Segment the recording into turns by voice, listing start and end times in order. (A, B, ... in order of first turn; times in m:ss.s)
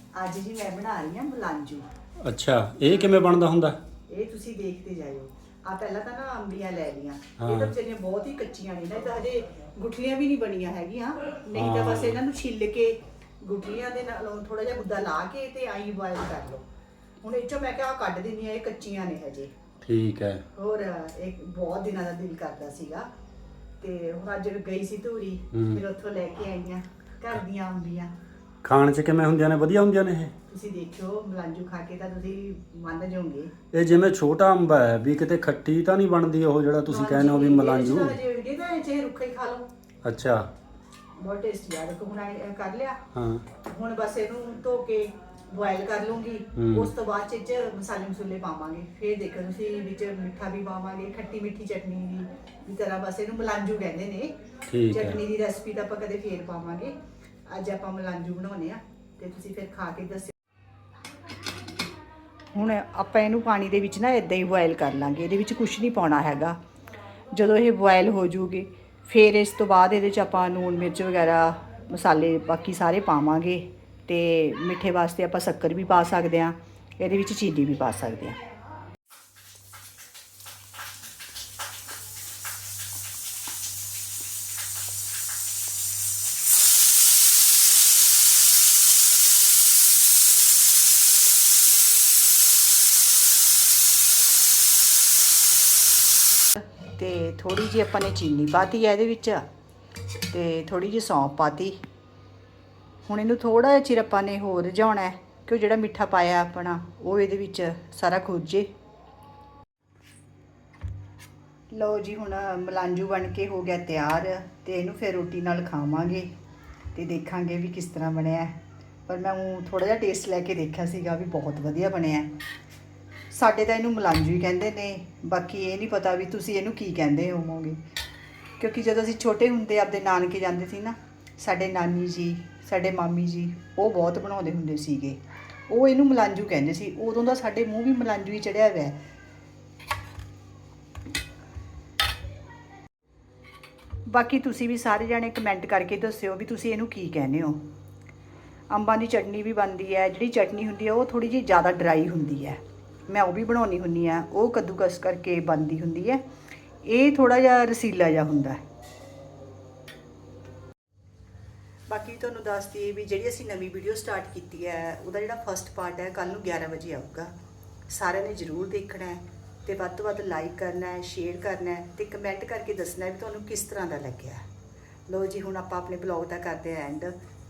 0:00.1-0:01.9 A
0:02.2-0:03.8 B
0:04.1-0:16.6 A
0:07.4-0:07.7 B
0:11.5-0:12.2 B
0:17.2-0:19.5 A
0:19.8-0:20.4 B
0:20.5-0:23.1 A
0:23.8-0:28.1 A
0:25.5-0:25.8 B
0:28.6-0:30.3 B
0:30.5-0:33.5 A
0:33.7-0:38.2 B
0:36.9-0:39.7 A
0:40.0-0:40.4 B
0:41.2-0:43.0 A
0:43.1-0:43.4 B
0:43.6-0:54.3 A
0:46.6-0:46.9 B
0:54.7-0:55.2 B
0:54.9-0:56.9 A
0:57.5-1:00.3 A
1:02.5-1:06.6 A
1:07.3-1:18.4 A
1:36.6-1:39.5 A
1:40.3-1:41.8 A
1:43.0-1:48.7 A
1:51.7-1:56.3 A
1:56.9-2:02.3 A
2:03.3-2:07.8 A
2:08.6-2:19.0 A
2:24.1-2:27.6 A
2:28.7-2:36.2 A
2:36.8-2:38.6 A
2:41.9-2:47.3 A
2:47.9-2:54.4 A
2:55.1-2:57.2 A